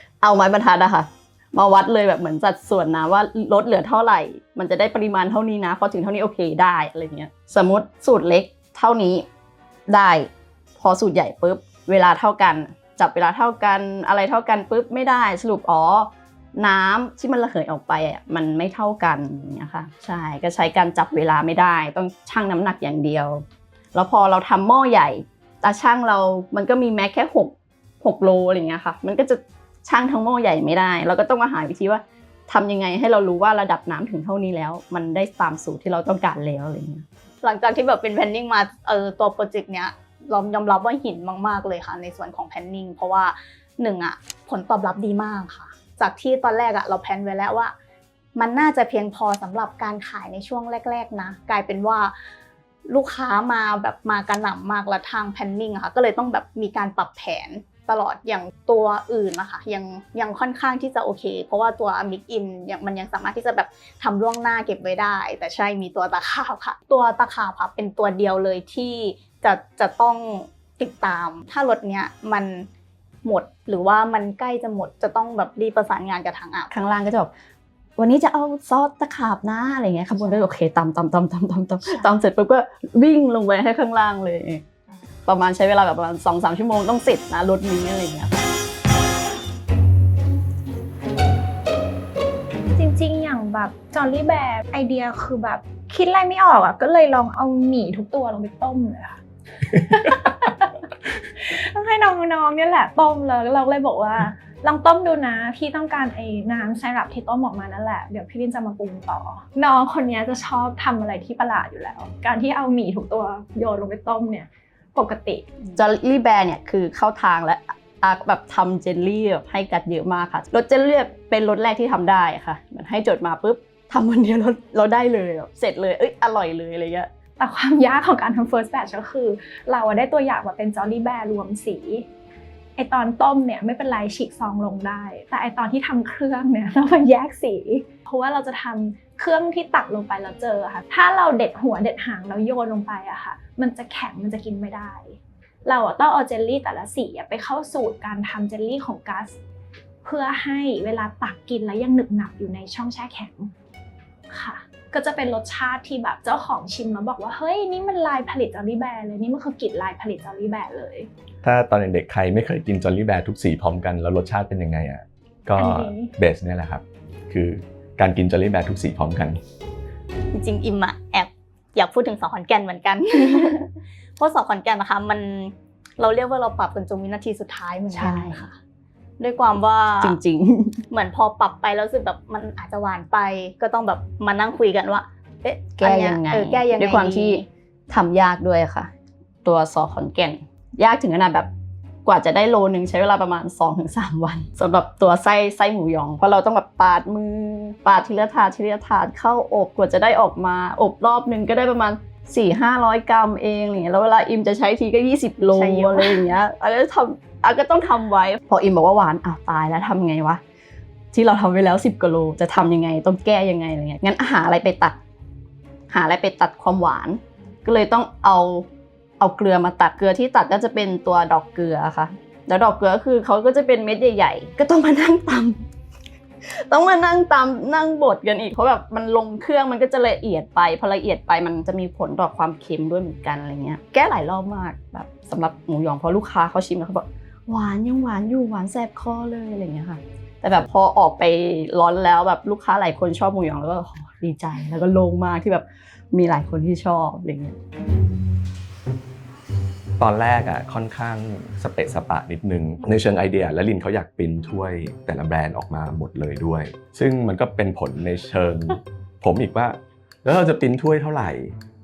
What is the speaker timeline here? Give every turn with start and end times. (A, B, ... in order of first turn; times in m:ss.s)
0:00.2-0:09.2 A
0:09.9-0:37.0 A
0:37.4-0:47.7 B
0:48.4-0:52.2 B
0:52.8-1:12.7 B
1:13.2-1:16.7 B
1:16.7-1:17.3 A
1:18.0-1:24.6 A
1:25.2-1:28.5 A
1:32.7-1:40.7 C
1:41.4-1:55.5 C
1:55.8-2:07.1 A
2:07.4-2:12.0 C
2:12.8-2:29.4 C
2:30.0-2:33.5 C
2:34.3-2:41.1 C
2:41.4-2:49.4 D
2:45.6-2:46.1 C
2:50.3-2:58.6 B
2:57.9-2:58.4 A
2:59.2-3:00.2 B
3:00.0-3:00.8 A
3:00.9-3:07.4 B
3:05.8-3:08.9 A
3:09.4-3:11.5 A
3:12.0-3:30.4 A
3:25.4-3:26.3 B
3:31.1-3:35.0 A
3:35.9-3:38.7 A
3:39.2-3:45.6 A
3:46.4-4:07.6 A
4:10.0-4:21.6 D